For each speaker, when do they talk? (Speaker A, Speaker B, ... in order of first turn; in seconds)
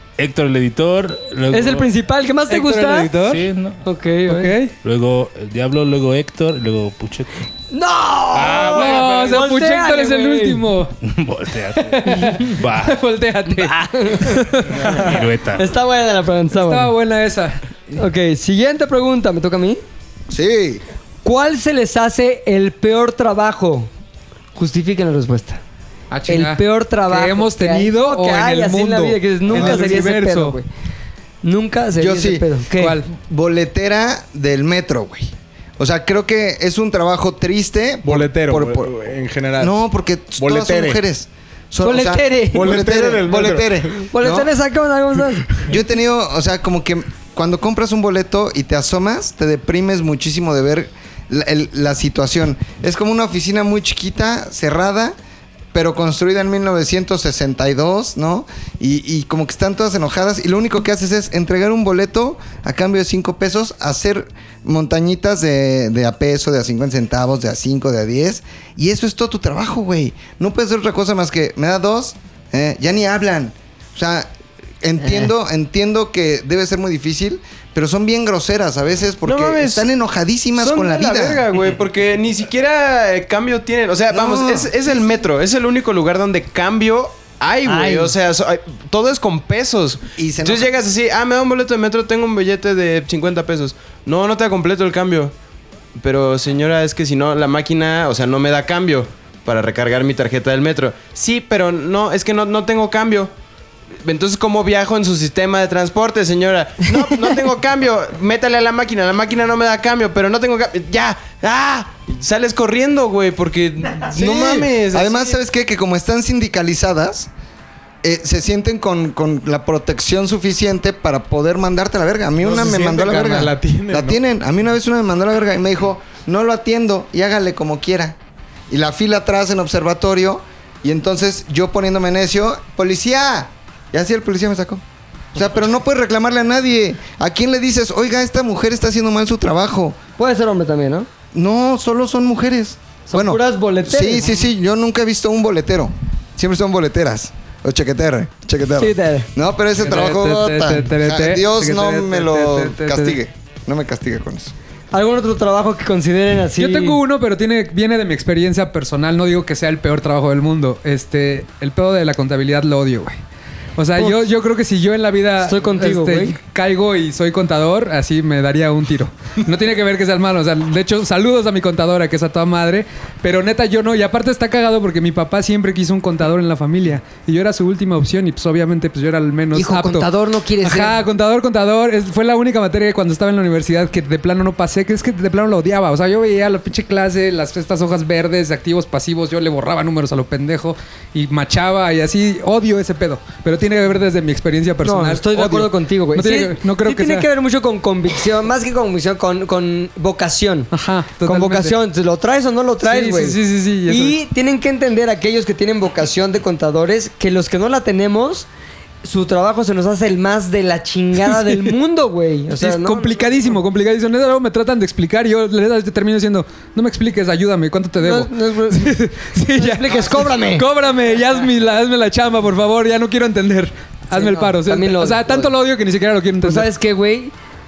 Speaker A: 0.2-1.9, 3.2-3.8, 4.8-7.3, 8.3-9.4, 11.0-13.0, 14.8-15.6
Speaker B: 1.5-3.1, 3.8-4.6, 7.7-10.6, 13.5-14.9, 15.5-16.9, 17.9-19.8, 21.2-23.9, 24.5-25.6, 26.3-30.6, 31.4-33.0, 41.8-42.7, 44.1-45.5, 75.0-75.3, 87.6-88.1, 140.2-141.1, 143.1-144.4, 148.8-149.3, 154.9-157.0, 165.4-166.4, 179.5-181.0, 194.8-200.7, 201.2-208.5, 209.0-213.3, 218.0-220.7, 224.1-225.5, 226.4-227.3
Speaker C: 2.5-3.4, 4.3-4.7, 8.7-10.9, 11.9-14.8, 16.6-17.6, 26.1-30.6, 32.8-33.1, 149.8-153.2, 156.6-163.2, 163.8-197.3, 200.7-201.7, 202.8-204.2, 212.6-226.7
Speaker D: 20.3-20.8, 29.5-29.8, 32.0-32.5, 33.1-38.9, 39.6-44.5, 45.6-55.1, 55.7-74.3, 74.8-81.5, 84.1-84.7, 90.2-90.7, 114.1-117.3, 118.0-128.2, 128.7-134.8, 135.3-140.0, 141.3-154.5
Speaker E: 38.0-39.7, 40.4-41.0, 42.5-43.9, 122.4-124.2
Speaker F: 79.2-79.9, 80.6-95.3, 96.0-103.3, 104.0-115.4